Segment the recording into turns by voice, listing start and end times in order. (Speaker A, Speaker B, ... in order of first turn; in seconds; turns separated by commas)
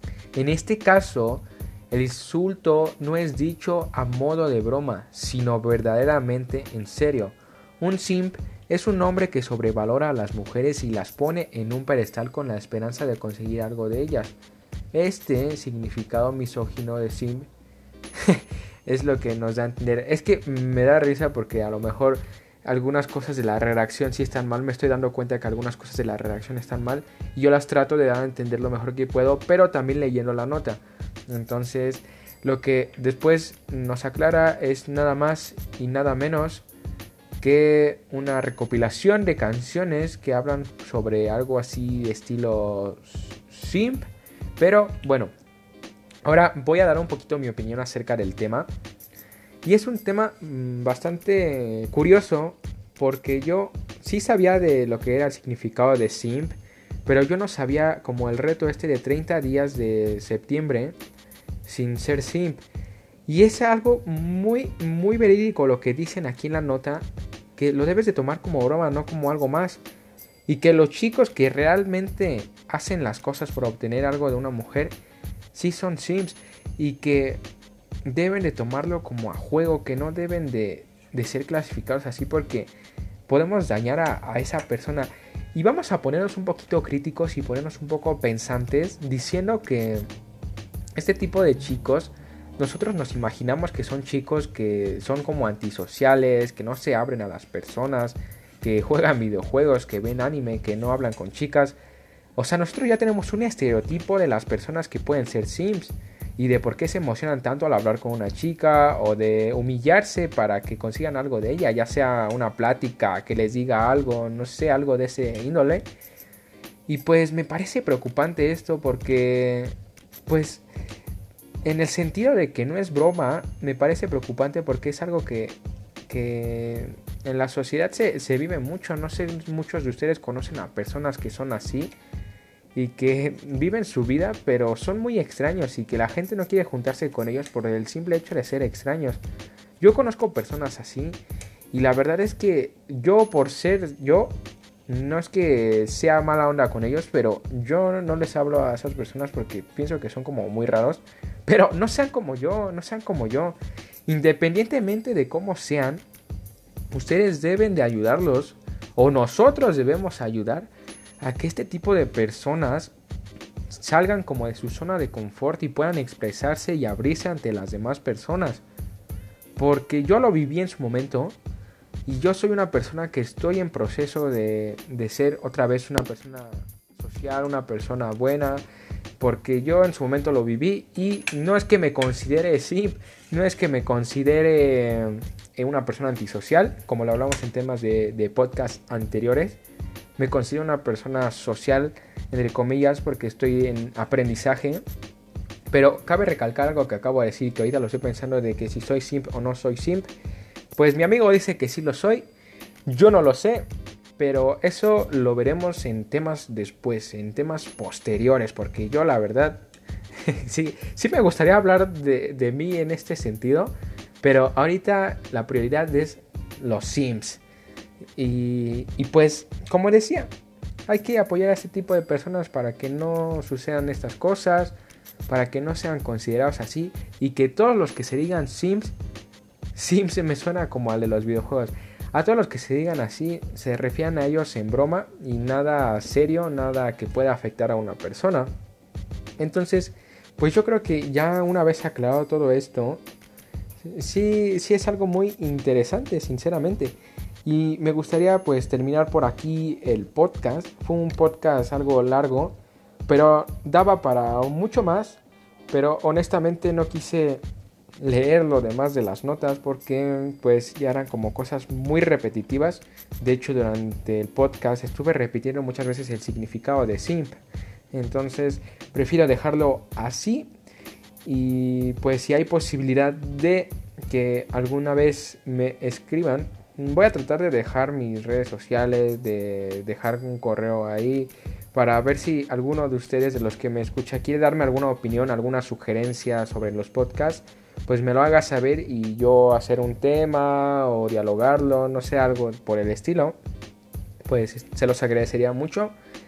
Speaker A: 0.3-14.3, Speaker A: 14.9-17.5, Speaker A: 18.2-36.6, Speaker A: 37.4-44.0, Speaker A: 44.6-45.3, Speaker A: 46.2-48.7, Speaker A: 49.6-61.0, Speaker A: 61.6-62.6, Speaker A: 63.2-67.0, Speaker A: 67.6-69.8, Speaker A: 70.5-75.0, Speaker A: 75.5-77.4, Speaker A: 78.0-82.7, Speaker A: 83.3-90.1, Speaker A: 91.0-101.8, Speaker A: 102.4-115.8, Speaker A: 116.9-119.7, Speaker A: 120.3-120.6, Speaker A: 121.6-131.9, Speaker A: 132.7-139.2, Speaker A: 139.8-141.2, Speaker A: 141.7-156.0, Speaker A: 156.9-162.9, Speaker A: 163.7-168.6, Speaker A: 169.6-171.3, Speaker A: 172.1-178.6, Speaker A: 179.2-189.6, Speaker A: 190.2-194.8, Speaker A: 195.7-200.1, Speaker A: 200.7-202.3, Speaker A: 202.9-209.6, Speaker A: 210.2-217.4, Speaker A: 218.2-220.3, Speaker A: 220.9-224.7, Speaker A: 225.3-228.9, Speaker A: 229.7-238.5, Speaker A: 239.4-243.0, Speaker A: 243.8-252.6, Speaker A: 253.1-257.4, Speaker A: 258.0-267.4, Speaker A: 267.9-270.5, Speaker A: 271.2-293.4, Speaker A: 294.2-295.9